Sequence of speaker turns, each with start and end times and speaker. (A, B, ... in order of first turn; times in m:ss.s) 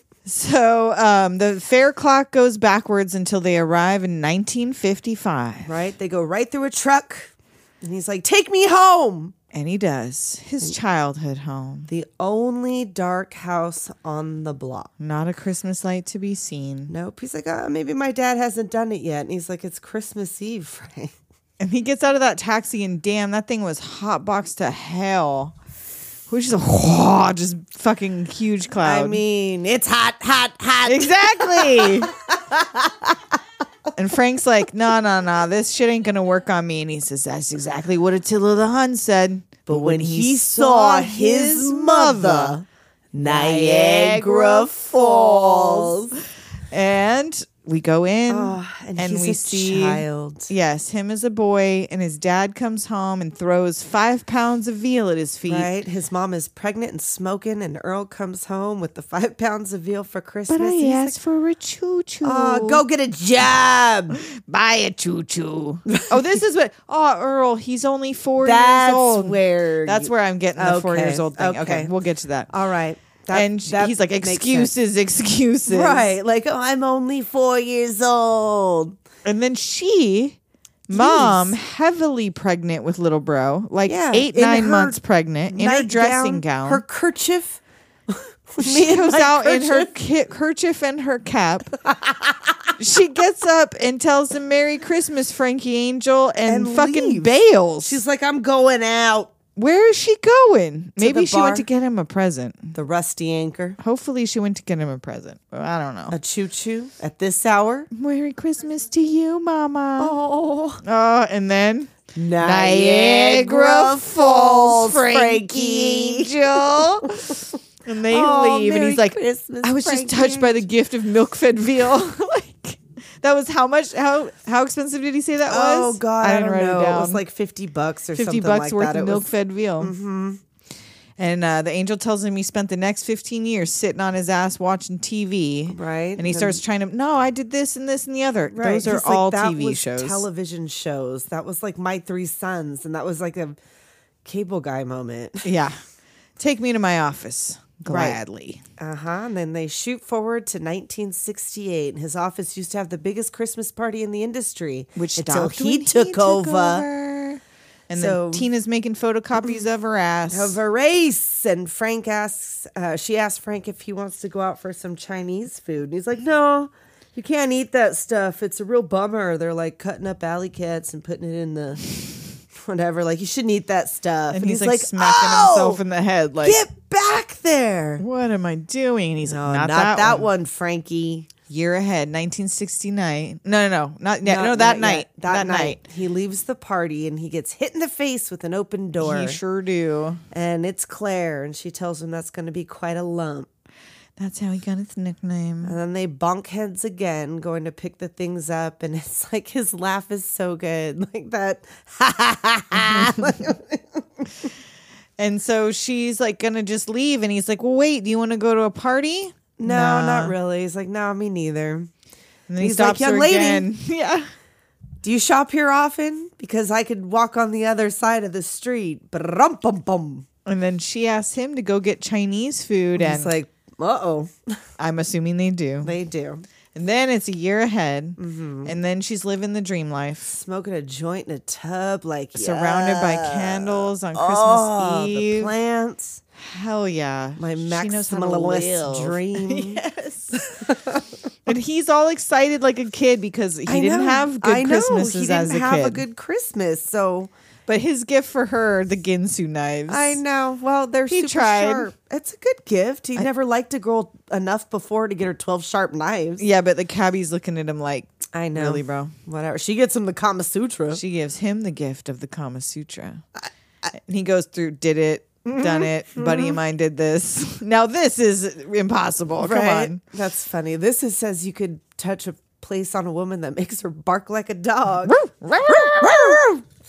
0:00.2-0:05.7 A
0:05.6-0:09.3 B
0:09.5-0:11.9 A
0:11.9-0:14.9 B
0:15.0-0:16.9 A
0:16.9-0:21.1 B
0:21.6-0:25.5 A
0:26.3-0:29.2 A
0:28.8-0:33.3 B
0:30.8-0:32.1 A
0:33.9-0:42.6 A
0:39.6-0:46.2 B
0:43.2-0:46.0 A
0:46.7-0:55.7 A
0:48.3-0:50.5 B
0:55.5-1:01.2 B
1:00.5-1:02.8 A
1:02.2-1:04.2 B
1:04.1-1:12.5 A
1:05.9-1:06.2 B
1:08.4-1:11.9 B
1:12.5-1:14.7 B
1:13.3-1:16.0 A
1:15.7-1:19.0 B
1:19.2-1:26.8 A
1:20.9-1:21.6 B
1:23.9-1:25.0 B
1:25.5-1:29.9 B
1:28.6-1:31.7 A
1:31.8-1:32.7 B
1:32.8-1:38.0 A
1:36.5-1:39.3 B
1:39.6-1:42.7 A
1:41.0-1:41.6 B
1:42.7-1:43.8 B
1:43.8-1:46.2 A
1:46.1-1:47.9 B
1:47.9-1:50.2 A
1:50.0-1:50.8 B
1:50.8-2:07.2 A
1:52.1-1:57.5 B
1:58.1-2:00.6 B
2:05.5-2:10.4 B
2:08.1-2:09.9 A
2:11.2-2:20.2 A
2:15.7-2:16.6 B
2:18.5-2:23.6 B
2:24.2-2:25.5 B
2:25.4-2:25.8 A
2:26.4-2:28.6 A
2:27.9-2:28.2 B
2:28.8-2:36.8 B
2:35.0-2:40.6 A
2:37.9-2:38.5 B
2:40.3-2:51.9 B
2:52.5-2:55.8 B
2:54.3-2:56.6 A
2:56.4-2:58.0 B
2:58.0-3:00.3 A
2:59.3-3:01.3 B
3:01.5-3:05.8 A
3:04.2-3:09.4 B
3:09.0-3:10.2 A
3:10.3-3:13.5 B
3:14.2-3:15.8 A
3:15.6-3:24.5 B
3:22.7-3:23.2 A
3:25.2-3:30.3 A
3:29.6-3:31.9 B
3:32.5-3:34.3 A
3:32.6-3:33.6 B
3:35.0-3:40.2 B
3:40.4-3:43.3 A
3:43.0-3:44.6 B
3:44.8-3:45.9 A
3:45.8-3:46.4 B
3:46.7-3:50.3 A
3:48.2-3:48.7 B
3:50.3-3:56.2 B
3:52.3-3:55.5 A
3:56.4-4:00.4 A
3:57.4-3:59.8 B
4:00.4-4:01.1 B
4:01.4-4:06.0 A
4:03.7-4:07.3 B
4:07.7-4:10.2 A
4:09.9-4:16.4 B
4:11.1-4:11.9 A
4:16.4-4:19.1 A
4:18.3-4:21.0 B
4:20.9-4:23.2 A
4:23.9-4:30.0 A
4:25.4-4:26.6 B
4:29.4-4:36.6 B
4:35.0-4:36.4 A